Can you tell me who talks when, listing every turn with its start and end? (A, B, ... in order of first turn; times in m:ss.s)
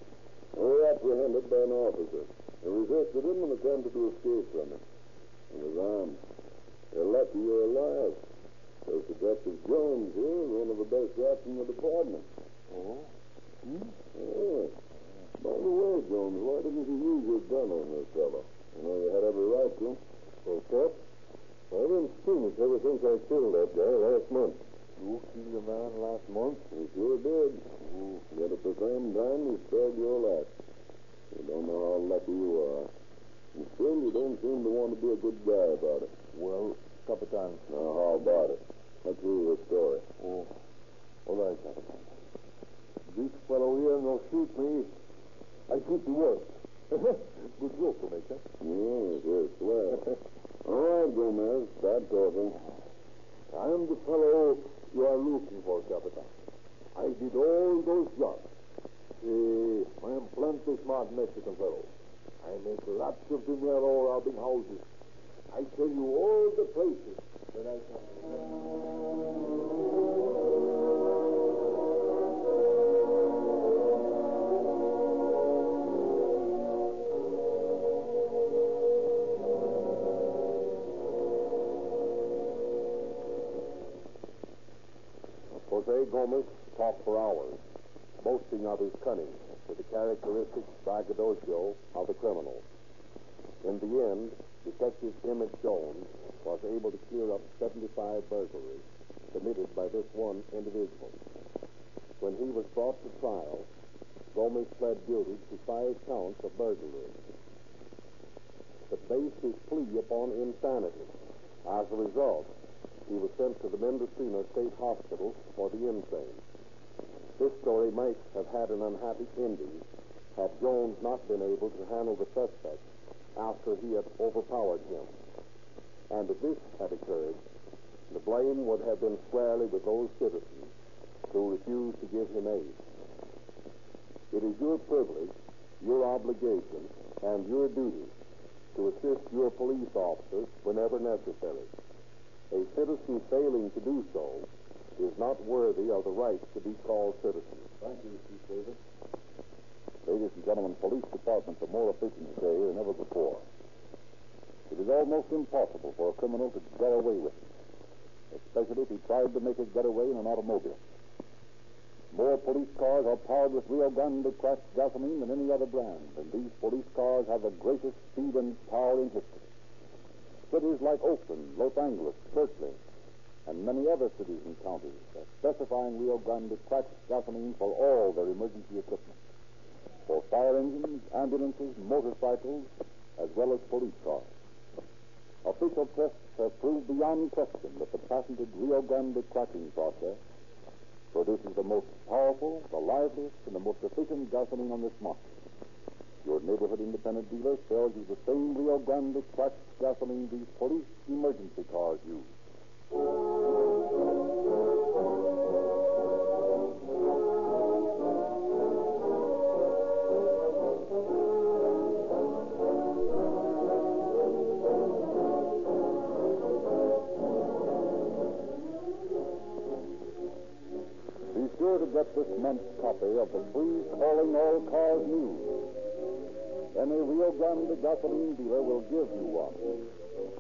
0:00.6-0:04.8 A
0:05.5-0:06.2 A
0:06.9-0:08.2 A
0:08.8-0:12.3 A
0:12.7-0:13.1 B
0:13.6-0:13.9 B
0:14.1-0:14.8 A
0:15.4-0:20.0 A
0:20.5-0:20.9 C
0:21.7-0:24.6 C
0:25.0-0:26.6 B
0:26.7-0:27.6 A
0:28.3-0:30.5 A
0:31.3-0:32.9 A
0:33.5-0:36.1 A
0:36.3-0:37.6 B
0:37.7-0:40.1 A
0:41.3-0:41.9 B
0:43.1-0:44.9 B
0:45.7-0:48.4 B
0:48.6-0:50.1 A
0:50.6-0:52.6 A
0:53.5-0:56.3 B
0:56.9-0:58.5 B
0:59.2-1:01.9 B
1:02.4-1:04.8 B
1:05.5-1:08.3 B
1:25.6-1:27.6 D
1:28.2-1:32.6 D
1:33.6-1:41.2 D
1:42.2-1:43.7 D
1:44.3-1:47.2 D
1:48.9-1:51.1 D
1:51.6-1:52.5 D
1:53.1-1:56.4 D
1:57.4-2:02.8 D
2:03.4-2:05.1 D
2:06.1-2:07.4 D
2:08.1-2:10.7 D
2:11.3-2:12.8 D
2:14.3-2:18.1 D
2:18.7-2:21.7 D
2:22.5-2:27.8 D
2:28.1-2:28.5 B
2:30.1-2:33.4 E
2:34.7-2:37.4 E
2:38.3-2:40.8 E
2:42.1-2:49.4 E
2:50.5-2:52.8 E
2:53.5-2:59.2 E
3:00.1-3:04.3 E
3:05.4-3:10.2 E
3:11.1-3:15.2 E
3:16.2-3:22.3 E
3:41.3-3:45.6 E
3:46.7-3:49.6 E